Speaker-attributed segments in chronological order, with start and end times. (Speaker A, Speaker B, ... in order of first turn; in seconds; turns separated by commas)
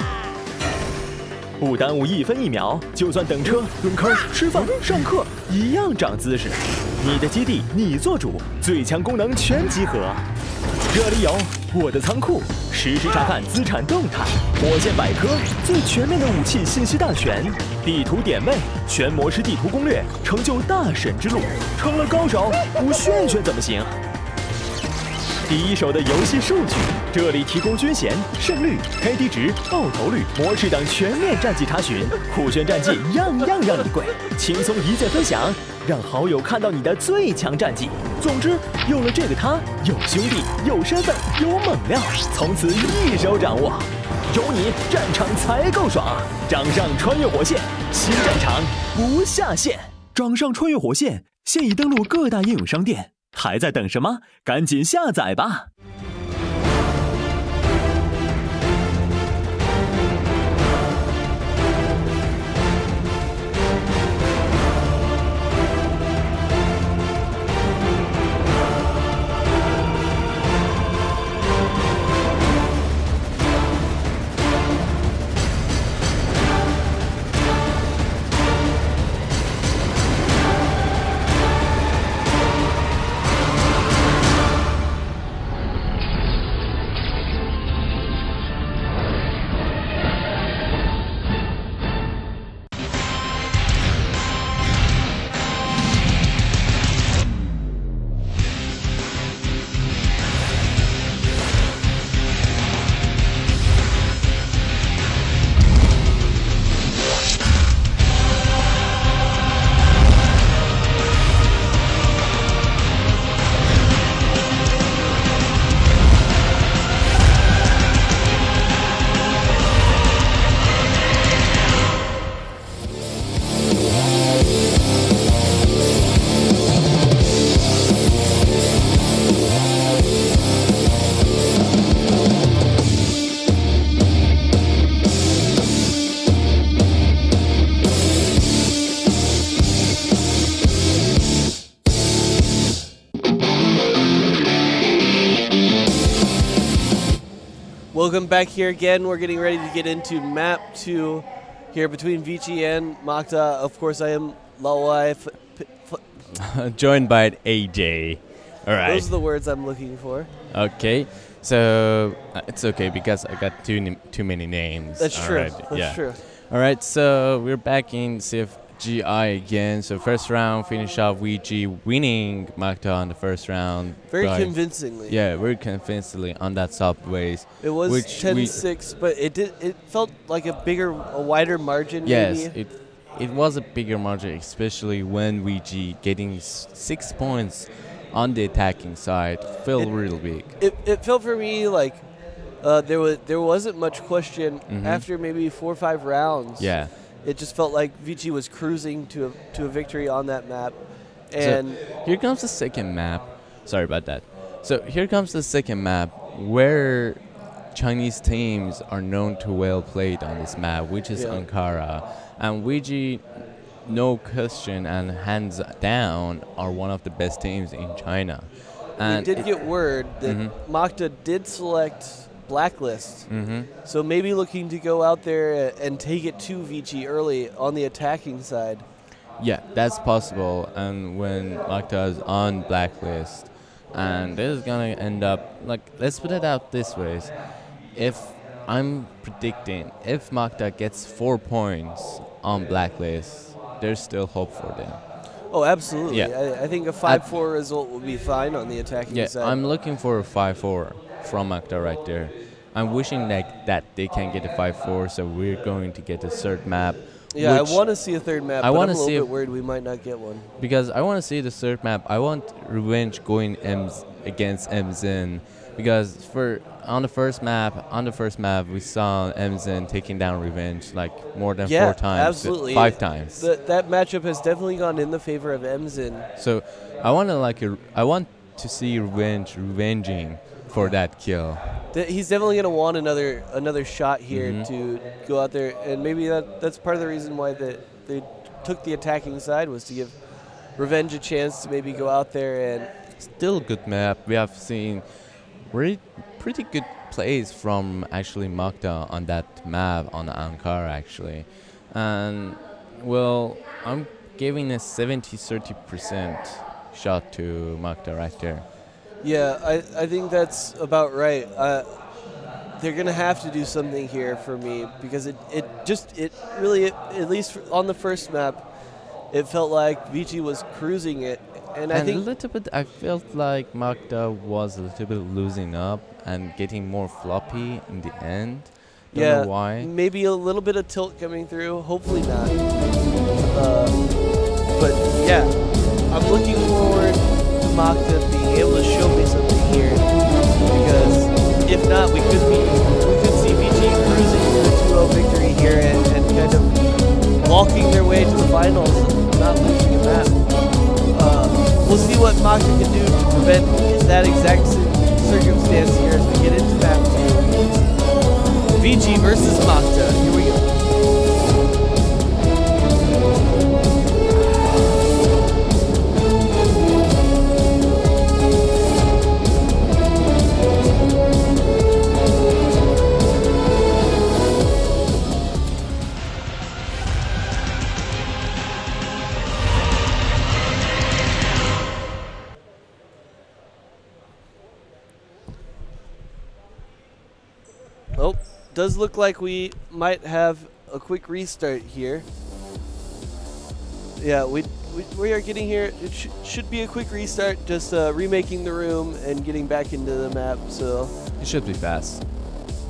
Speaker A: 1.6-10.3, Speaker A: 10.9-23.9, Speaker A: 25.5-55.7, Speaker B: 147.9-156.0, Speaker C: 156.3-159.1, Speaker B: 158.8-160.3, Speaker C: 160.5-178.7, Speaker B: 165.0-166.2, Speaker B: 174.1-175.2, Speaker B: 177.6-182.5, Speaker C: 182.0-190.5, Speaker B: 190.6-192.0, Speaker B: 192.6-201.8, Speaker C: 194.7-195.1, Speaker C: 196.6-196.9, Speaker C: 201.3-213.3, Speaker B: 211.1-211.4, Speaker C: 213.8-220.5, Speaker B: 219.1-223.3, Speaker C: 223.3-223.7, Speaker B: 223.8-228.8, Speaker C: 229.4-237.3, Speaker C: 237.9-245.0, Speaker B: 245.5-249.6, Speaker C: 246.1-246.3, Speaker C: 247.0-247.3, Speaker C: 249.1-257.9, Speaker B: 257.3-260.5, Speaker C: 258.6-259.3, Speaker C: 260.6-273.5, Speaker B: 271.6-276.3, Speaker C: 276.4-281.6, Speaker B: 281.9-290.1, Speaker C: 284.3-284.7, Speaker B: 290.8-292.9, Speaker C: 293.2-295.0, Speaker C: 295.7-308.6, Speaker B: 309.2-312.0, Speaker B: 312.8-318.6, Speaker B: 319.3-322.2, Speaker C: 321.9-329.9, Speaker B: 329.1-332.6, Speaker B: 333.5-334.0, Speaker B: 334.7-335.6, Speaker B: 336.1-340.1, Speaker B: 340.6-350.4, Speaker B: 351.1-357.8, Speaker B: 358.7-360.7, Speaker B: 388.1-392.2, Speaker B: 394.2-401.1, Speaker C: 401.4-402.2